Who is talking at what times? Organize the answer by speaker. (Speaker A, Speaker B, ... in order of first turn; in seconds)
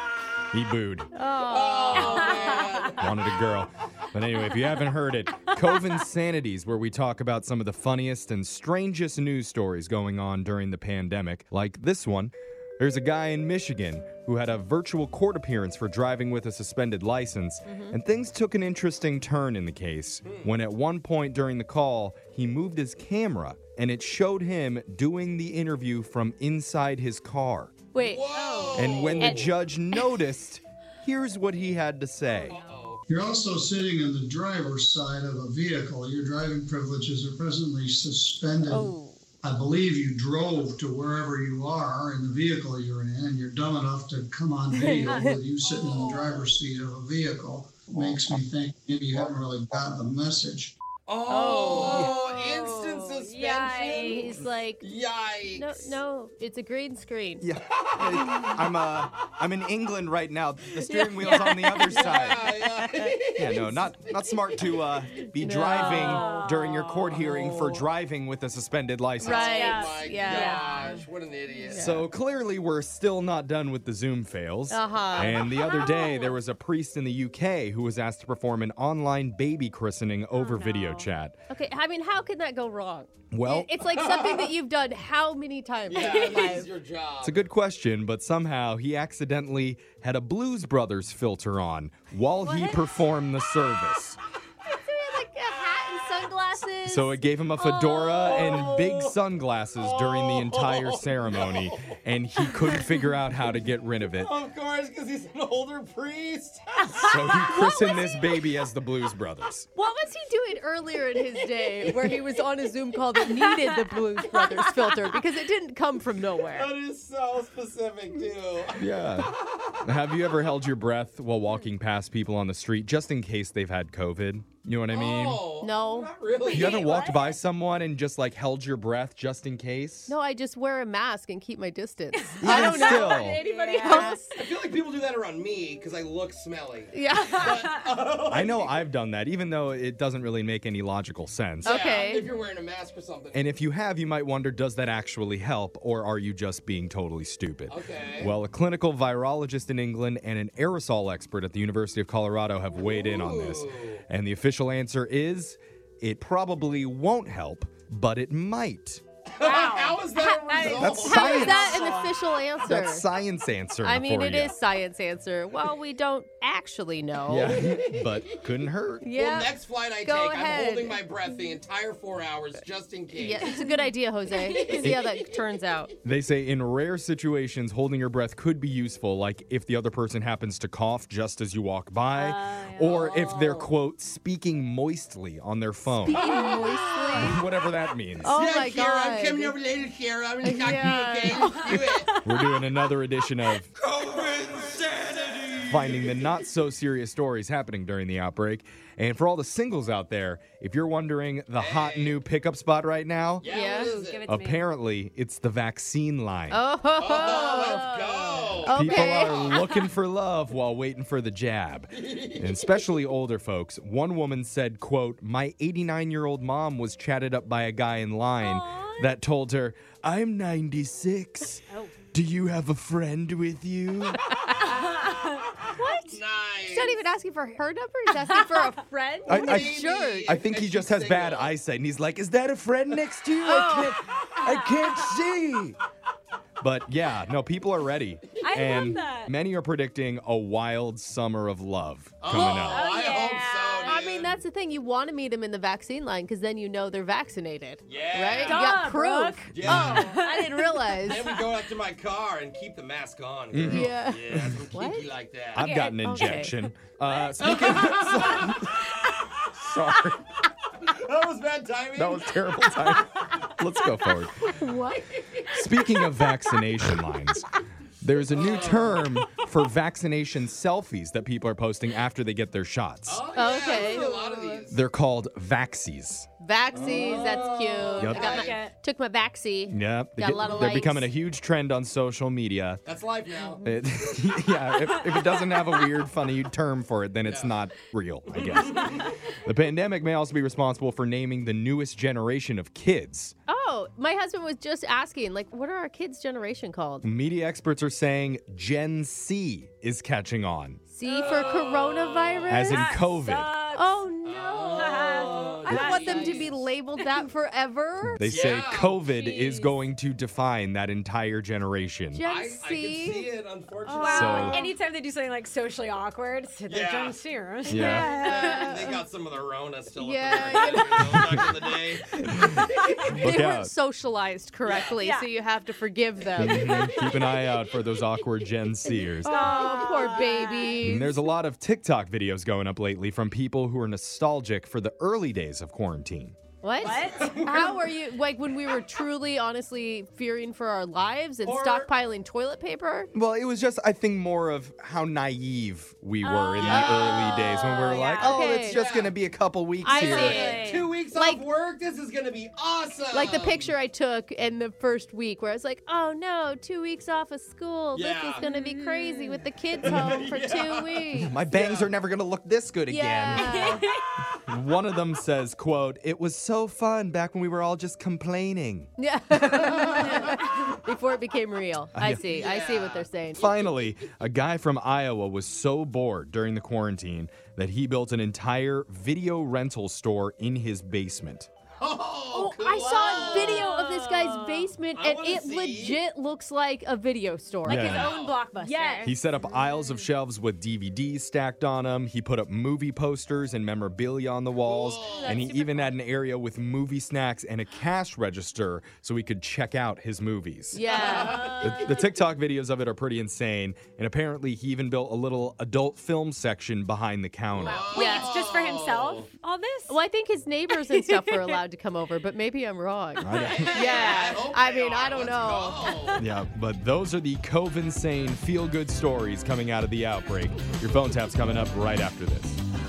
Speaker A: 0.5-1.1, 2.9-27.8, 28.7-32.6, 57.4-62.5, 63.4-69.6, 71.7-81.3, 83.3-83.8, 87.2-94.2, 96.8-104.3, 106.9-109.7, 118.8-119.3, 119.8-125.4, 126.5-130.1, 132.4-133.4, 138.3-141.8, 143.3-159.0, 160.8-161.8, 162.6-164.6, 167.3-169.1, 174.8-175.1, 176.0-186.3, 187.1-188.3, 192.2-193.7, 195.6-203.5, 204.3-206.6, 208.7-224.3, 229.3-235.8, 236.6-242.8, 249.6-250.0, 253.5-254.5, 255.5-260.2, 261.9-264.5, 265.4-267.5, 268.0-273.2, 274.7-276.3, 278.0-278.4, 279.7-282.8, 283.6-293.3, 297.0-300.8, 302.5-303.5, 308.1-312.2, 314.0-314.6, 317.7-318.1, 323.1-323.7, 326.4-329.5, 330.8-336.4, 343.1-350.4, 361.2-363.8, 364.4-368.9, 371.9-372.3, 373.4-381.5, 387.6-388.1, 389.0-408.0, 413.2-413.9, 416.2-422.6
Speaker B: 1.2-2.6, 17.6-17.9, 27.9-29.5, 38.7-39.1, 44.7-45.4, 51.3-52.1, 53.7-54.8, 55.5-57.4, 61.0-63.1, 65.4-66.4, 69.2-70.8, 71.6-72.1, 74.7-75.8, 81.5-86.7, 92.4-92.9, 94.7-98.7, 109.8-116.7, 125.6-126.1, 130.1-134.3, 136.9-137.6, 141.6-142.3, 160.5-163.1, 163.8-167.6, 169.0-171.0, 173.1-175.9, 185.9-187.4, 188.2-189.5, 190.4-191.7, 203.5-204.0, 206.5-207.9, 208.6-209.5, 224.5-225.1, 225.6-230.4, 233.4-233.9, 243.8-251.4, 253.7-255.1, 256.0-256.5, 264.4-265.5, 273.3-274.6, 276.4-281.1, 293.5-297.0, 300.9-302.9, 303.7-308.4, 312.1-313.3, 313.9-314.7, 318.0-319.0, 320.0-321.4, 322.2-326.9, 329.2-331.2, 336.6-343.1, 346.6-348.8, 349.8-351.4, 353.1-361.3, 362.9-363.8, 369.0-373.5, 382.3-387.9, 388.6-389.1, 400.7-401.7, 407.9-408.4, 409.9-416.2
Speaker C: 1.3-3.3, 20.2-20.5, 28.0-29.5, 32.4-33.0, 45.6-46.6, 47.9-48.4, 51.1-56.0, 57.8-58.5, 61.3-63.9, 67.2-67.8, 69.2-71.8, 84.0-84.5, 85.9-87.5, 98.1-99.2, 99.8-102.0, 104.2-108.2, 116.5-119.3, 124.9-127.0, 134.3-138.8, 141.6-143.5, 147.7-148.3, 152.7-154.0, 159.3-161.9, 169.1-173.6, 174.6-175.4, 182.9-183.7, 186.2-186.7, 188.3-192.2, 194.4-195.5, 201.5-202.2, 203.4-204.3, 207.0-209.6, 211.9-212.8, 226.0-227.0, 229.2-231.5, 242.2-244.4, 247.8-248.8, 249.5-250.4, 251.0-255.7, 257.4-259.5, 260.8-262.5, 268.3-269.2, 273.1-274.8, 276.7-278.7, 282.8-283.6, 287.2-287.6, 288.3-289.1, 301.1-302.7, 304.2-306.7, 308.2-309.0, 312.2-314.4, 316.7-323.0, 324.6-325.0, 329.7-330.3, 337.1-337.8, 341.4-341.9, 346.6-347.4, 348.6-349.1, 350.1-353.7, 357.9-358.5, 359.7-361.9, 372.2-373.9, 381.8-383.7, 384.9-386.0, 387.8-388.5, 394.6-395.5, 401.0-401.5, 407.6-409.3, 413.3-416.2
Speaker D: 2.0-2.7, 28.3-28.8, 32.3-32.9, 45.0-45.4, 51.5-54.4, 61.1-62.0, 65.7-67.3, 69.4-71.0, 75.5-76.3, 80.3-81.0, 126.4-127.3, 132.2-134.4, 159.4-162.1, 174.4-174.8, 182.1-183.2, 186.2-187.4, 191.3-192.6, 203.4-204.6, 207.2-208.6, 218.4-219.1, 224.7-225.9, 234.4-234.9, 238.4-239.3, 242.3-244.0, 248.3-251.1, 255.6-256.5, 273.7-274.0, 276.9-278.7, 301.0-301.7, 302.5-304.1, 304.6-307.2, 309.1-309.8, 313.9-318.8, 320.5-321.1, 325.0-325.3, 326.5-327.3, 329.2-330.9, 336.8-337.6, 346.2-348.4, 349.9-350.9, 358.4-359.4, 363.3-364.0, 369.9-370.8, 382.7-384.7, 387.6-389.6, 395.0-395.9, 400.8-401.9, 407.5-410.0, 410.7-411.6, 413.3-414.2
Speaker E: 33.1-50.8